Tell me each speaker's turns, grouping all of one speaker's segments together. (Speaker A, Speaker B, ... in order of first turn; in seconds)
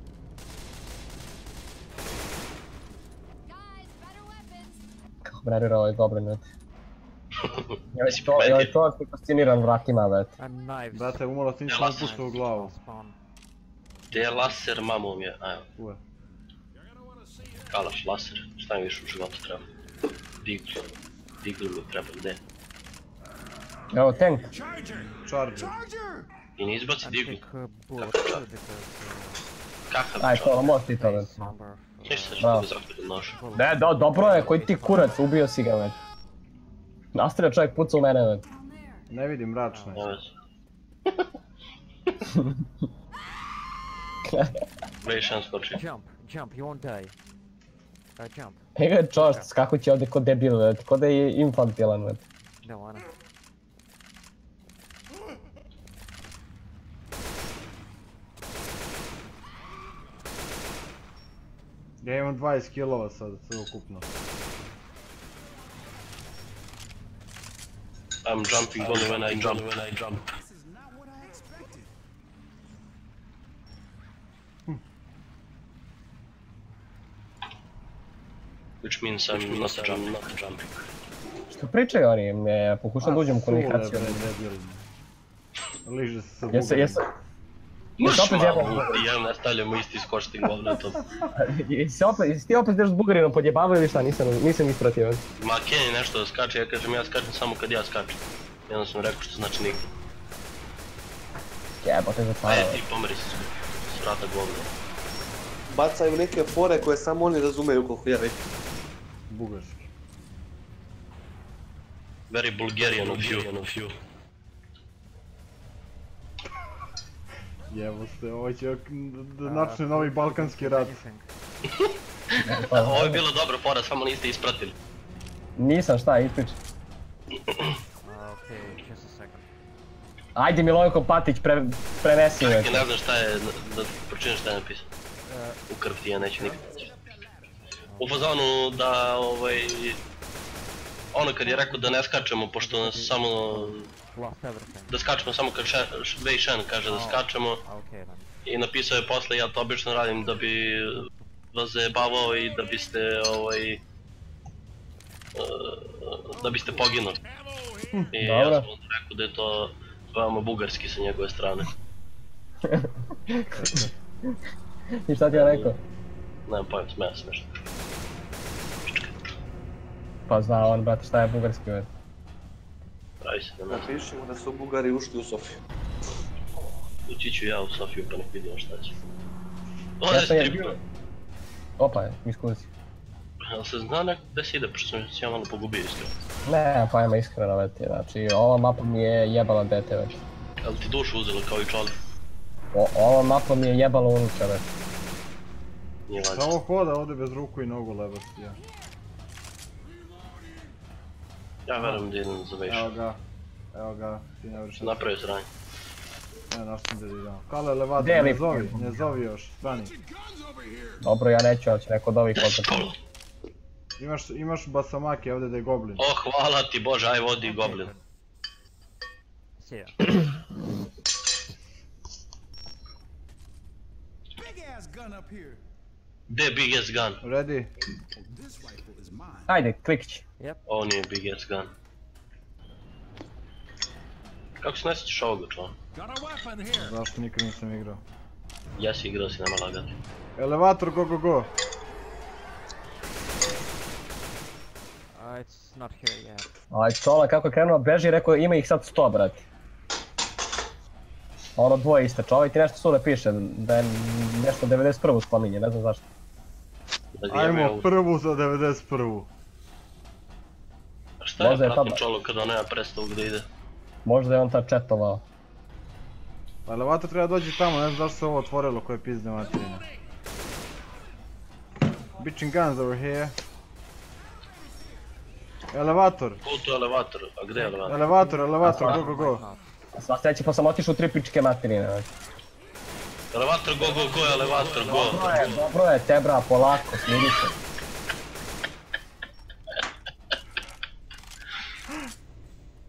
Speaker A: 3.4-4.9, 38.4-39.1
Speaker B: 5.3-6.5, 7.9-10.3, 23.9-24.5, 30.2-31.3, 32.4-32.7, 33.5-36.0, 37.1-38.4, 44.3-44.6, 48.8-52.2, 81.5-84.2, 86.5-87.1, 88.0-89.1, 91.3-95.2, 101.8-102.8, 122.4-123.2, 125.6-126.6, 130.4-132.9, 158.2-158.7, 162.7-163.8, 165.0-165.8, 170.3-171.9, 180.1-180.8, 181.8-182.7, 186.5-190.2, 192.7-194.7, 208.0-208.9, 211.0-212.9, 229.5-230.2, 246.7-249.4, 251.6-256.0, 261.4-262.0, 264.1-265.2, 278.6-279.1, 280.0-282.1, 284.8-287.6
Speaker C: 7.5-8.7, 11.7-12.2, 14.1-15.7, 17.7-19.6, 20.4-20.9, 21.4-22.4, 26.6-27.4, 28.0-28.4, 29.9-30.8, 32.0-33.4, 40.0-40.3, 45.0-45.8, 68.2-70.2, 78.8-80.8, 88.0-91.0, 95.4-99.9, 102.5-104.7, 112.3-113.9, 121.7-124.8, 132.4-134.9, 135.7-136.9, 138.0-140.0, 141.1-143.9, 144.9-147.6, 148.4-153.8, 155.3-157.2, 158.1-161.7, 165.3-165.7, 166.5-167.5, 168.8-169.2, 173.2-173.9, 177.1-178.9, 180.0-180.8, 183.4-186.2, 190.6-192.0, 196.1-196.5, 201.7-202.9, 204.8-205.5, 212.3-213.0, 216.0-217.9, 226.3-227.2, 230.7-231.7, 234.6-235.8, 238.8-240.0, 257.2-257.9, 261.2-263.5, 276.4-278.0, 283.3-285.7
Speaker D: 10.4-13.2, 27.0-29.4, 30.9-32.7, 33.3-35.3, 39.7-40.1, 45.7-47.1, 48.2-49.5, 52.6-53.1, 119.4-121.3, 128.0-129.5, 135.3-135.6, 136.4-136.7, 137.9-138.3, 141.4-142.0, 142.6-145.0, 146.8-148.3, 217.4-217.9, 219.6-220.2, 245.1-246.5, 278.0-279.6
Speaker E: 10.9-12.7, 25.2-25.8, 39.1-40.1, 62.0-64.1, 79.3-79.7, 83.0-84.8, 85.8-87.0, 109.3-109.9, 117.7-121.0, 163.5-163.9, 196.2-198.6, 202.7-203.2, 203.7-205.1, 206.5-209.9, 214.0-216.0, 227.2-227.7, 236.7-238.0, 240.4-241.5, 257.3-259.3, 266.7-269.9, 272.2-273.4, 275.7-276.4, 277.9-279.4
Speaker F: 16.7-17.9, 24.5-26.3, 68.8-72.0, 113.0-113.7, 156.4-158.1, 200.1-200.7, 209.6-211.1, 224.4-225.6, 228.2-229.6, 235.9-237.1, 284.5-284.8
Speaker G: 105.7-108.4, 173.7-175.6